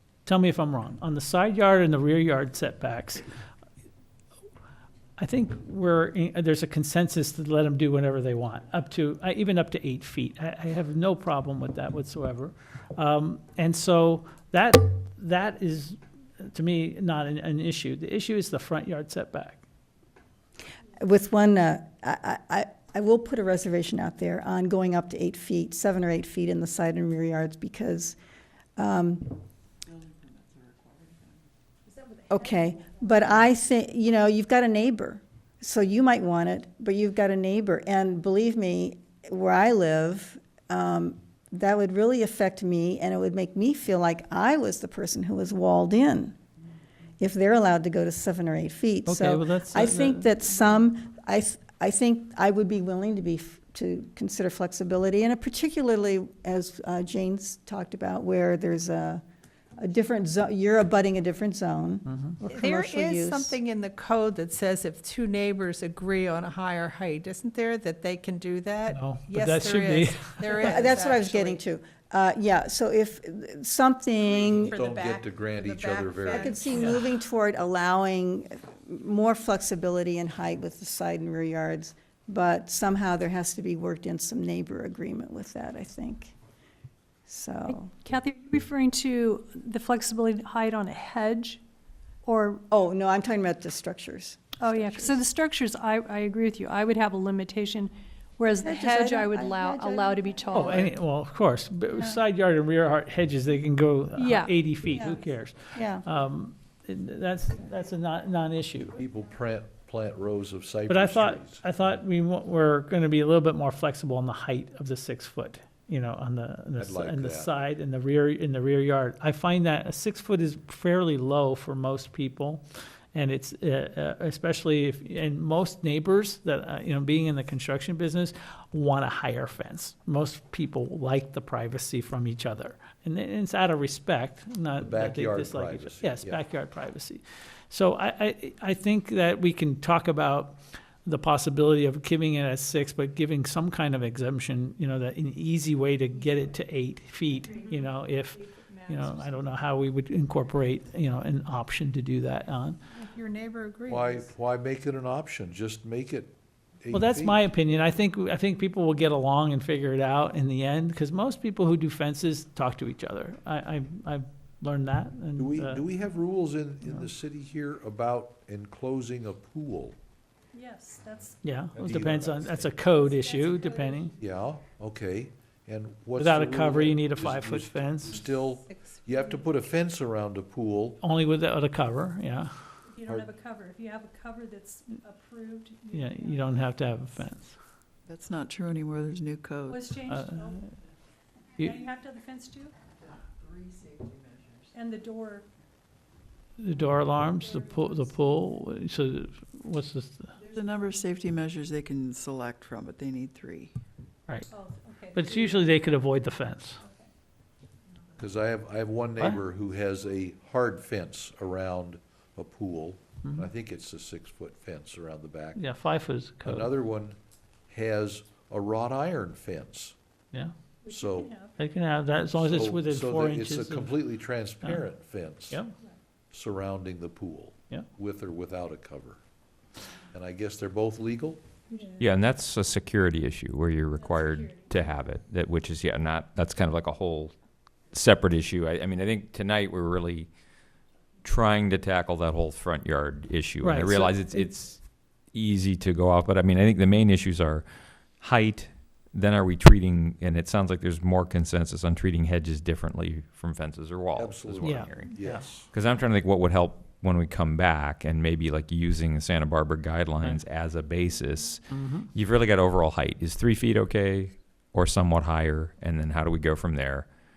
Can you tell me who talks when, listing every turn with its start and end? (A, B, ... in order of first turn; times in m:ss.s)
0:00.3-0:03.2 A
0:05.2-0:19.6 A
0:21.0-0:28.2 B
0:28.8-0:29.3 B
0:29.9-0:31.5 C
0:31.9-0:32.9 D
0:32.3-0:46.4 B
0:47.2-0:59.2 B
0:49.1-0:50.4 A
0:59.8-1:03.6 B
1:02.5-1:08.8 E
1:08.9-1:10.9 A
1:10.5-1:11.6 E
1:10.5-1:14.7 B
1:14.3-1:16.3 F
1:15.7-1:16.6 E
1:16.3-1:26.4 B
1:16.7-1:17.1 A
1:27.3-1:27.9 B
1:27.7-1:31.6 D
1:32.2-1:32.6 D
1:32.7-1:35.2 B
1:34.6-1:40.9 D
1:38.5-1:40.9 B
1:40.5-1:49.0 A
1:44.2-1:44.6 D
1:44.9-1:46.1 B
1:49.0-1:51.6 F
1:50.9-2:02.6 A
1:56.8-1:57.5 F
2:03.1-2:32.8 A
2:14.8-2:16.4 F
2:33.9-2:37.4 F
2:36.9-2:45.8 A
2:45.4-2:50.0 F
2:50.5-2:51.4 D
2:51.4-2:54.2 A
2:51.7-2:52.7 F
2:52.8-2:54.2 D
2:54.2-3:01.0 F
2:56.2-2:58.3 A
3:01.0-3:02.5 A
3:02.9-3:06.7 D
3:05.9-3:07.5 A
3:08.1-3:10.0 C
3:09.7-3:10.6 D
3:10.1-3:10.7 A
3:11.6-3:12.7 D
3:12.9-3:14.7 C
3:14.7-3:15.5 D
3:16.6-3:20.3 A
3:17.3-3:18.1 D
3:20.4-3:23.7 C
3:24.5-3:25.9 D
3:25.2-3:26.8 A
3:28.2-3:35.6 F
3:33.2-3:33.5 A
3:35.6-3:36.7 A
3:36.4-3:37.2 F
3:37.7-3:40.0 F
3:40.8-3:41.5 D
3:40.9-3:41.5 F
3:41.5-3:44.8 A
3:42.3-3:45.6 F
3:45.5-3:45.7 A
3:46.3-3:49.2 F
3:50.1-3:51.4 F
3:51.7-3:52.0 D
3:52.0-3:57.4 G
3:54.0-3:54.7 D
3:57.9-4:00.3 G
4:01.2-4:27.1 G
4:03.6-4:04.5 A
4:14.2-4:15.7 F
4:14.6-4:15.4 A
4:21.7-4:22.1 A